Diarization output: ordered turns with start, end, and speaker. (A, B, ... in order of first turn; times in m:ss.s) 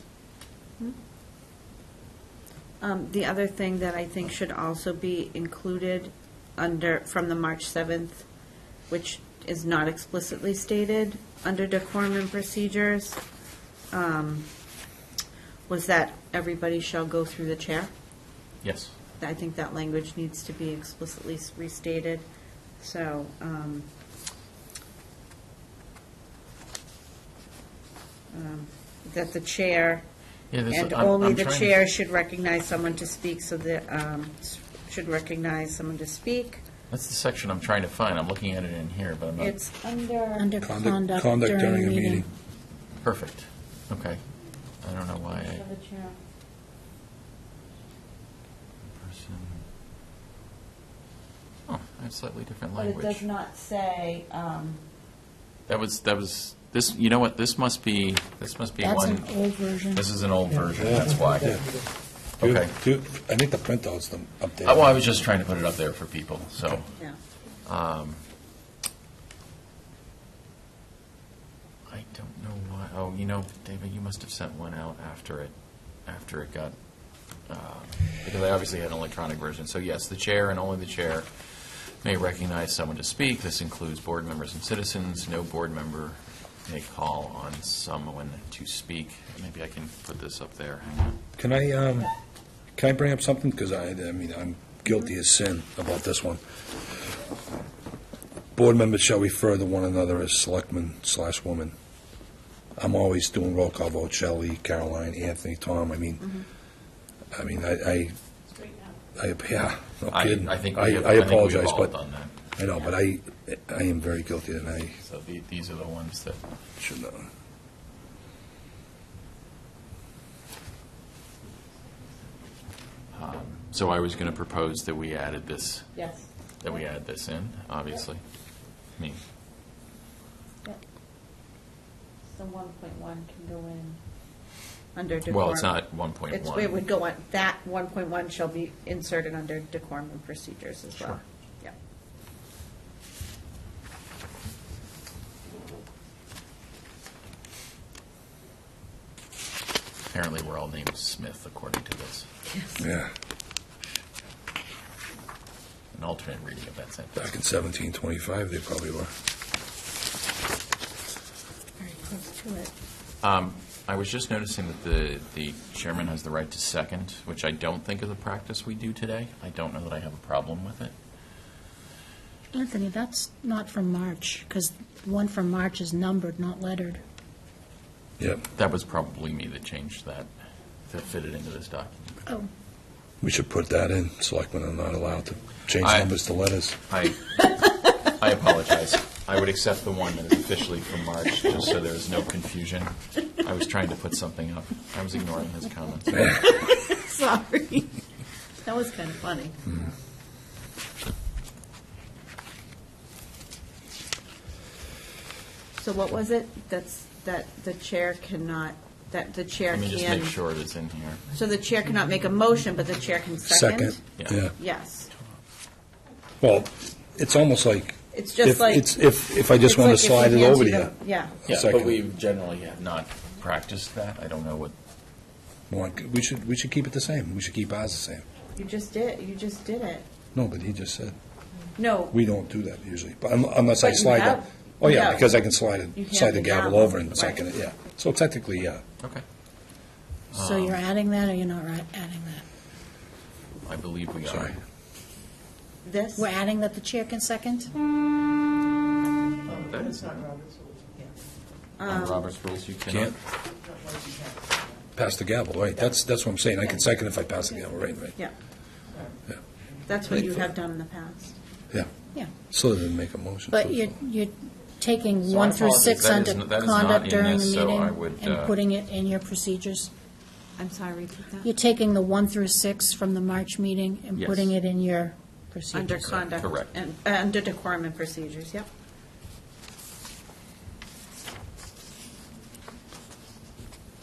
0:02.8-0:08.2 A
0:08.9-0:13.2 A
0:13.9-0:14.5 A
0:15.7-0:17.9 A
0:18.6-0:18.9 B
0:19.2-0:22.2 A
0:22.8-0:23.9 A
0:28.3-0:30.0 A
0:30.5-0:31.8 B
0:30.7-0:36.6 A
0:36.9-0:39.5 B
0:39.4-0:40.4 A
0:40.4-0:42.2 C
0:40.6-0:42.3 D
0:43.0-0:44.2 B
0:44.8-0:45.6 B
0:45.3-0:46.2 A
0:48.9-0:49.6 B
0:51.7-0:53.2 B
0:52.8-0:54.8 A
0:55.7-1:01.6 B
0:58.8-1:00.0 C
1:00.9-1:01.6 D
1:02.4-1:05.0 D
1:02.4-1:02.7 B
1:04.6-1:06.9 B
1:07.6-1:08.2 B
1:11.9-1:15.5 B
1:16.0-1:16.8 B
1:17.4-1:31.2 B
1:31.4-1:32.1 D
1:32.8-1:36.4 D
1:38.6-1:41.7 D
1:42.8-1:46.4 D
1:47.3-1:48.2 D
1:48.6-1:48.9 A
1:49.1-1:51.9 D
1:50.1-1:52.3 B
1:52.6-1:55.0 D
1:55.0-1:56.4 B
1:56.8-1:57.2 D
2:03.1-2:05.9 B
2:06.0-2:06.8 A
2:06.6-2:08.2 B
2:12.3-2:14.0 A
2:14.9-2:15.7 A
2:15.3-2:16.8 B
2:16.3-2:21.7 A
2:30.1-2:32.3 B
2:32.5-2:32.8 A
2:32.8-2:33.1 D
2:35.9-2:37.3 B
2:37.2-2:39.1 D
2:41.8-2:42.7 A
2:43.2-2:50.9 B
2:52.5-2:57.0 C
2:58.5-3:00.3 B
3:00.9-3:02.2 B
3:03.2-3:06.8 D
3:05.8-3:06.1 B
3:06.9-3:16.2 B
3:16.2-3:18.0 A
3:18.6-3:19.6 A
3:25.8-3:30.3 A
3:29.7-3:31.3 B
3:31.3-3:35.1 A
3:33.4-3:34.5 D
3:36.4-3:40.9 D
3:38.1-3:38.9 A
3:39.5-3:41.4 A
3:41.4-3:42.0 D
3:41.5-3:44.7 B
3:45.7-3:48.2 D
3:48.5-3:50.1 A
3:50.3-3:51.2 D
3:51.8-3:52.2 A
3:52.1-3:58.8 D
3:53.8-3:55.3 A
3:55.9-3:57.4 A
4:00.3-4:00.8 B
4:00.3-4:02.4 C
4:03.6-4:04.6 B
4:04.3-4:04.5 D
4:05.8-4:06.2 A
4:06.2-4:07.7 C
4:09.4-4:10.3 B
4:11.8-4:12.2 A
4:11.8-4:13.1 B
4:12.9-4:13.1 D
4:14.9-4:18.2 D
4:19.8-4:21.4 A
4:20.1-4:20.4 D
4:22.5-4:23.9 D
4:23.5-4:29.9 C
4:25.3-4:28.5 B
4:30.6-4:31.5 A
4:31.4-4:36.1 C
4:34.1-4:34.5 B
4:35.7-4:38.7 A
4:36.0-4:36.7 B